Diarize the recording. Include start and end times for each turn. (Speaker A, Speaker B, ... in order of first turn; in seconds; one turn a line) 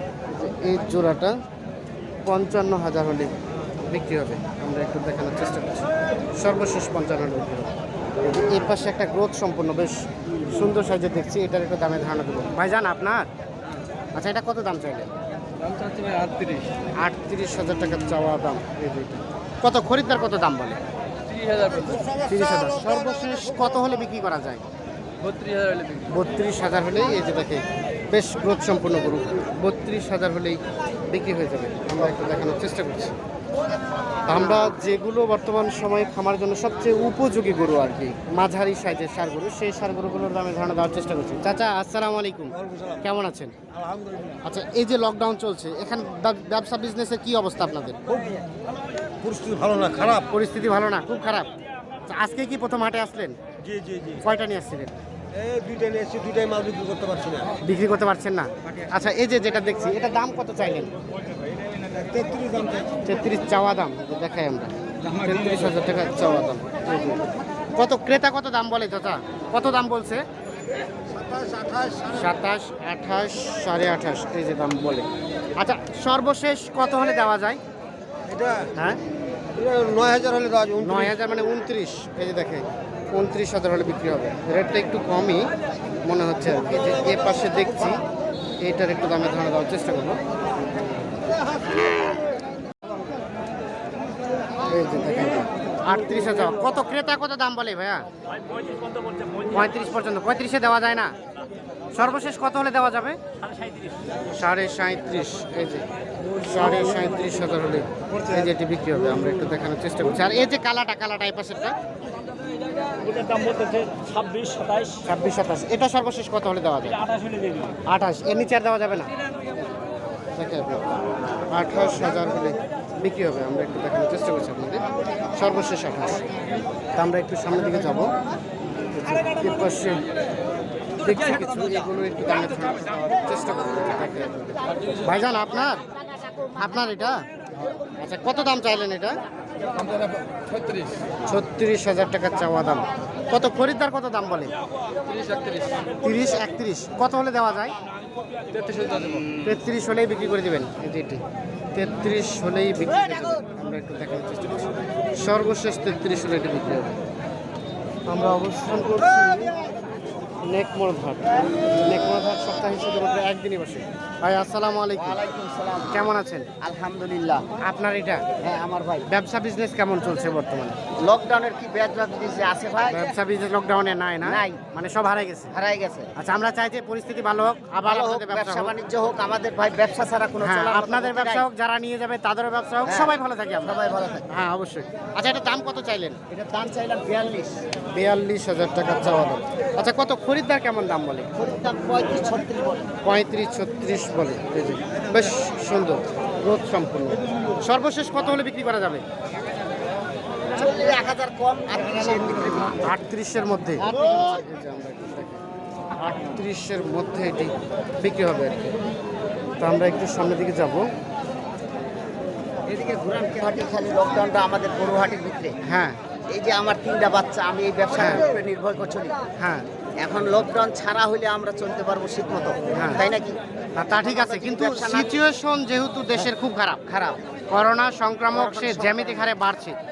Speaker A: 0.3-1.3
Speaker A: 2.2-3.3
Speaker A: 3.8-13.3
Speaker A: 14.2-15.1
Speaker B: 15.6-16.7
Speaker A: 17.0-20.8
Speaker B: 21.3-22.1
Speaker A: 22.2-24.6
Speaker B: 25.2-26.1
Speaker A: 26.1-33.1
Speaker A: 34.2-43.5
Speaker C: 43.9-44.3
Speaker A: 44.4-48.0
Speaker C: 49.2-50.2
Speaker A: 50.1-51.5
Speaker A: 52.1-53.4
Speaker C: 53.7-54.1
Speaker A: 54.1-54.9
Speaker C: 55.4-57.5
Speaker A: 57.6-60.9
Speaker C: 62.1-62.9
Speaker A: 63.0-67.2
Speaker A: 67.8-70.2
Speaker C: 71.5-71.9
Speaker A: 72.0-75.1
Speaker A: 75.6-77.6
Speaker C: 78.3-78.6
Speaker A: 78.7-79.0
Speaker C: 79.5-81.0
Speaker A: 80.7-85.5
Speaker A: 86.0-88.0
Speaker A: 88.6-90.2
Speaker A: 94.7-98.0
Speaker A: 99.5-101.1
Speaker A: 101.9-103.2
Speaker B: 103.5-103.9
Speaker A: 104.3-111.7
Speaker B: 113.0-115.0
Speaker A: 115.0-117.0
Speaker A: 117.8-119.1
Speaker A: 120.3-120.8
Speaker A: 121.5-124.8
Speaker A: 125.3-126.2
Speaker A: 127.0-128.1
Speaker A: 128.9-130.1
Speaker A: 131.0-135.8
Speaker A: 136.5-137.2
Speaker A: 138.0-139.2
Speaker A: 141.2-144.5
Speaker B: 145.1-145.8
Speaker A: 146.0-147.7
Speaker B: 148.5-149.2
Speaker A: 149.4-151.2
Speaker A: 151.7-157.0
Speaker A: 158.1-159.5
Speaker A: 160.4-165.2
Speaker D: 164.9-166.1
Speaker A: 165.9-166.5
Speaker D: 166.6-167.5
Speaker A: 167.6-168.2
Speaker D: 168.4-169.1
Speaker A: 169.1-170.8
Speaker D: 171.0-173.1
Speaker A: 172.9-175.5
Speaker D: 174.2-174.6
Speaker D: 175.5-176.1
Speaker A: 176.2-178.7
Speaker D: 177.8-181.4
Speaker A: 180.4-186.2
Speaker D: 182.8-184.2
Speaker D: 186.3-187.6
Speaker A: 187.9-191.3
Speaker D: 191.3-192.9
Speaker A: 193.0-199.0
Speaker D: 200.5-202.9
Speaker A: 202.8-205.4
Speaker A: 205.9-208.7
Speaker A: 209.6-210.8
Speaker D: 212.7-215.6
Speaker A: 215.6-216.0
Speaker D: 216.3-219.2
Speaker A: 217.9-218.2
Speaker A: 219.4-219.6
Speaker D: 220.0-225.2
Speaker A: 222.7-223.0
Speaker A: 223.8-226.8
Speaker D: 226.9-227.2
Speaker A: 227.5-229.8
Speaker D: 228.3-229.3